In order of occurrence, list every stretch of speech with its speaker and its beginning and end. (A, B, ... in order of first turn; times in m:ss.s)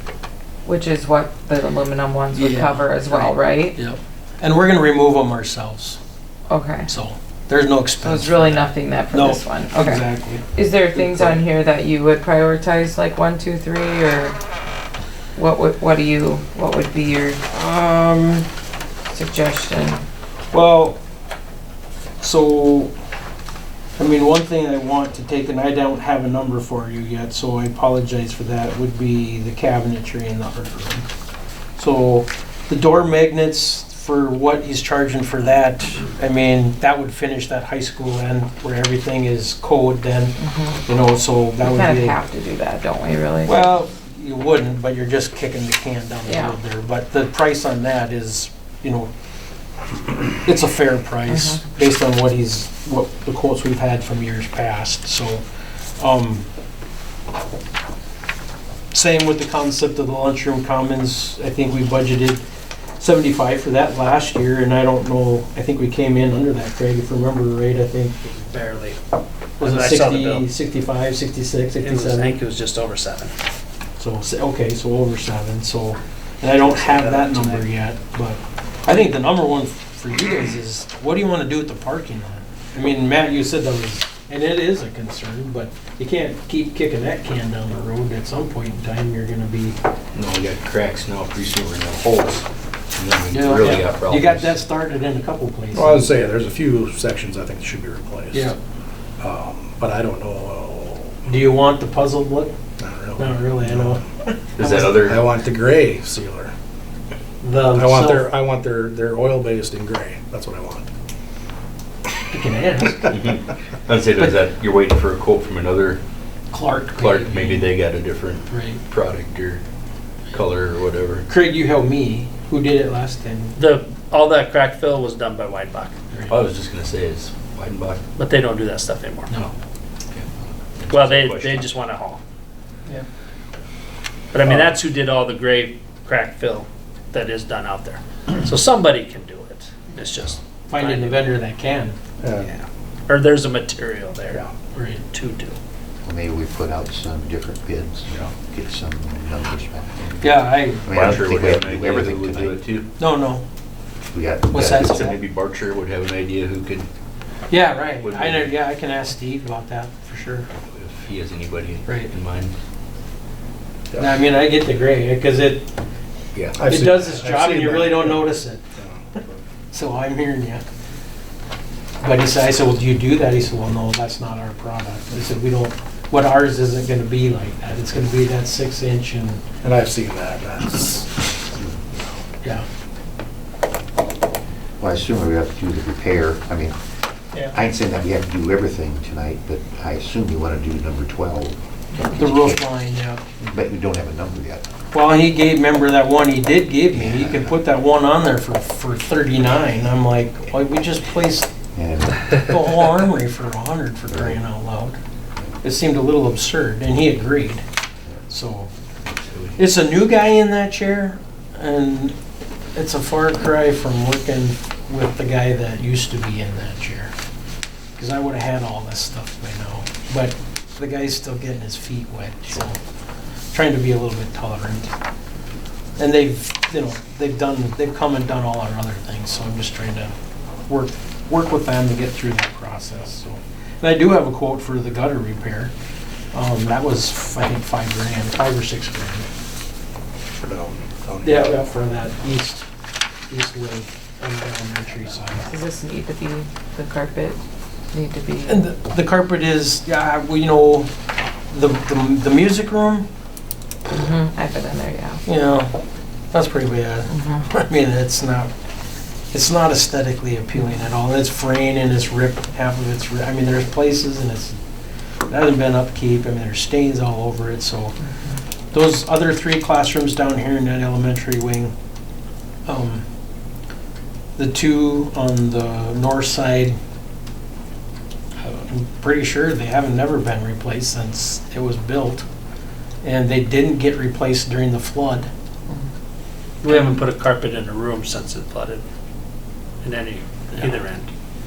0:00.6-0:03.8 A
0:02.4-0:06.0 B
0:06.5-0:06.9 A
0:06.9-0:11.4 B
0:08.0-0:14.4 A
0:15.4-0:17.4 A
0:17.5-0:18.5 B
0:19.1-0:20.0 A
0:20.5-0:21.0 B
0:22.2-0:22.9 B
0:24.0-0:31.1 B
0:31.8-0:42.2 B
0:40.4-0:40.8 A
0:41.6-0:43.8 A
0:43.4-0:49.1 B
0:46.3-0:46.6 A
0:50.4-0:55.4 B
0:51.3-0:51.6 A
0:56.0-0:56.4 B
0:58.9-1:02.4 B
1:03.0-1:08.4 B
1:08.4-1:09.0 C
1:09.6-1:12.4 B
1:09.6-1:10.5 C
1:11.8-1:13.3 C
1:14.0-1:29.8 B
1:16.6-1:17.7 C
1:30.1-1:34.6 D
1:33.3-1:36.1 B
1:35.7-1:38.5 E
1:38.3-1:38.6 B
1:39.2-1:41.4 E
1:41.3-1:42.6 B
1:42.8-1:44.0 E
1:43.2-1:45.1 B
1:44.6-1:45.2 D
1:44.9-1:46.5 E
1:47.4-1:48.3 B
1:47.7-1:50.9 E
1:52.3-1:53.2 B
1:53.1-1:56.0 D
1:56.5-1:57.8 B
1:57.0-1:59.6 D
1:58.5-1:58.8 B
2:00.3-2:01.3 D
2:01.3-2:03.6 B
2:03.6-2:05.9 C
2:06.3-2:08.0 D
2:08.2-2:09.3 C
2:10.1-2:11.8 D
2:10.9-2:12.2 C
2:14.3-2:21.3 C
2:14.4-2:14.8 E
2:20.7-2:22.0 B
2:22.2-2:22.5 E
2:22.4-2:24.4 C
2:24.8-2:25.1 B
2:25.1-2:25.6 C
2:26.0-2:30.2 F
2:30.0-2:32.9 D
2:30.2-2:31.1 B
2:30.9-2:32.6 F
2:33.0-2:33.4 B
2:34.1-2:35.1 F
2:34.5-2:35.2 B
2:34.7-2:36.9 D
2:37.5-2:40.5 B
2:38.0-2:38.6 D
2:40.7-2:42.5 D
2:41.9-2:42.1 B
2:43.9-2:44.2 E
2:44.0-2:45.7 B
2:46.6-2:49.4 E
2:46.6-2:48.6 B
2:49.7-2:50.6 B
2:52.0-2:59.5 B
2:59.6-3:01.2 E
3:04.8-3:06.8 F
3:07.5-3:12.7 F
3:12.2-3:13.2 B
3:13.5-3:14.7 F
3:14.9-3:21.5 B
3:16.9-3:17.6 F
3:21.7-3:22.3 F
3:22.4-3:25.0 B
3:24.1-3:24.4 F
3:25.6-3:27.6 B
3:28.3-3:28.7 B
3:29.0-3:29.6 D
3:29.6-3:32.2 B
3:32.8-3:37.1 B
3:38.0-3:42.8 B
3:43.5-3:44.9 B
3:46.0-3:50.1 B
3:50.7-3:55.7 B
3:56.3-3:59.3 B
4:00.4-4:01.6 E
4:01.2-4:02.7 B
4:03.3-4:05.5 B
4:05.5-4:07.4 A
4:07.9-4:08.7 A
4:08.5-4:10.9 B
4:11.5-4:13.1 B
4:13.9-4:15.2 A
4:15.2-4:15.8 B
4:16.3-4:18.5 B
4:17.1-4:17.4 A
4:19.3-4:24.6 B
4:25.3-4:28.0 B
4:28.7-4:31.7 B
4:32.7-4:33.0 B
4:34.4-4:36.8 B
4:38.4-4:42.3 B
4:43.0-4:45.3 B
4:46.6-4:48.8 C
4:46.7-4:47.0 B
4:49.8-4:51.1 C